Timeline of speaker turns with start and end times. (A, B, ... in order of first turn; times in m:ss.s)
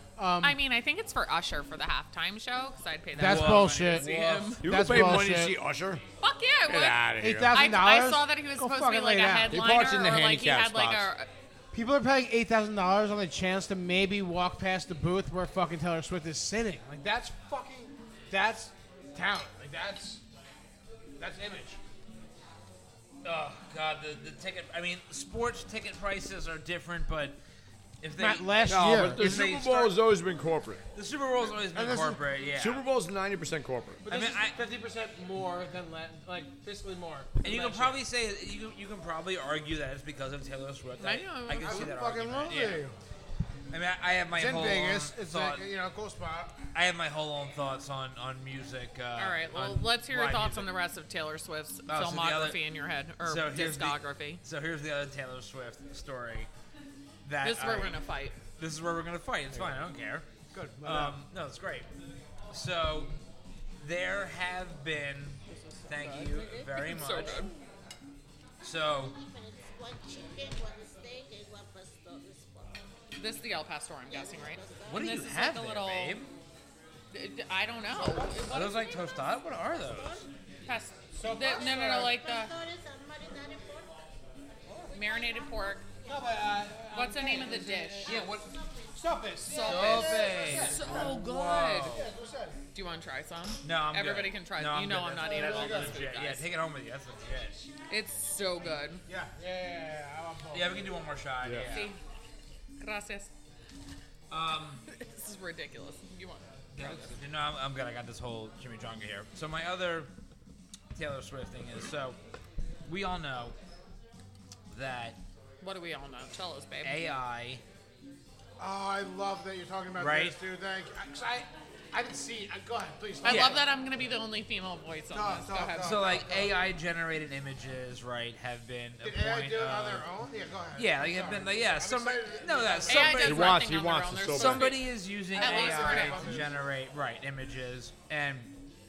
0:00.2-0:00.6 A
0:00.4-0:04.6 B
0:03.1-0:04.1 A
0:03.2-0:04.6 C
0:04.6-0:06.0 D
0:04.6-0:05.5 A
0:06.2-0:11.3 B
0:06.6-0:07.5 D
0:07.2-0:09.6 A
0:09.5-0:11.1 D
0:11.7-0:20.2 A
0:21.2-0:21.8 A
0:23.2-0:27.4 C
0:28.0-0:30.0 C
0:28.2-0:29.5 A
0:28.7-0:30.8 D
0:30.9-0:32.8 C
0:31.7-0:32.2 A
0:32.5-0:34.0 D
0:34.0-0:38.0 A
0:34.1-0:34.6 C
0:37.4-0:42.8 C
0:41.0-0:41.9 B
0:41.6-0:42.9 A
0:43.7-0:45.6 C
0:44.3-0:46.5 A
0:46.7-0:50.7 C
0:49.2-0:54.4 B
0:51.9-0:52.6 C
0:53.2-0:56.5 C
0:57.2-0:58.0 C
0:57.4-0:58.3 B
0:58.6-1:00.2 C
1:00.5-1:01.2 A
1:00.8-1:01.9 C
1:02.5-1:03.1 C
1:03.8-1:07.4 C
1:05.9-1:07.6 E
1:06.8-1:07.5 B
1:08.6-1:09.1 C
1:08.9-1:12.8 E
1:13.2-1:16.2 B
1:14.1-1:15.2 E
1:14.9-1:16.3 C
1:17.1-1:18.8 B
1:17.9-1:18.5 A
1:18.0-1:20.3 E
1:18.5-1:20.2 C
1:20.6-1:22.5 B
1:21.1-1:22.2 A
1:21.4-1:24.1 E
1:24.7-1:26.4 E
1:24.9-1:25.8 B
1:26.0-1:28.2 A
1:26.9-1:28.2 B
1:27.4-1:30.6 E
1:28.0-1:28.5 C
1:28.9-1:31.2 A
1:29.4-1:32.0 B
1:29.5-1:32.1 C
1:31.8-1:32.6 A
1:32.7-1:36.4 B
1:33.6-1:37.7 C
1:35.2-1:36.1 A
1:37.9-1:39.0 B
1:39.1-1:41.0 A
1:40.5-1:41.9 C
1:41.4-1:41.7 D
1:41.7-1:42.0 B
1:42.8-1:43.3 B
1:44.3-1:44.8 C
1:44.9-1:47.1 B
1:46.7-1:50.1 C
1:50.9-1:52.2 C
1:52.9-1:53.6 C
1:54.7-1:55.2 C
1:55.6-1:57.0 B
1:56.8-1:57.6 C
1:58.6-2:03.6 A
2:00.0-2:00.4 C
2:03.2-2:06.0 B
2:03.2-2:03.6 C
2:05.1-2:06.5 A
2:05.8-2:10.0 C
2:09.0-2:13.3 A
2:10.8-2:13.6 C
2:12.9-2:16.4 B
2:13.2-2:14.7 D
2:14.3-2:18.5 C
2:15.3-2:16.5 A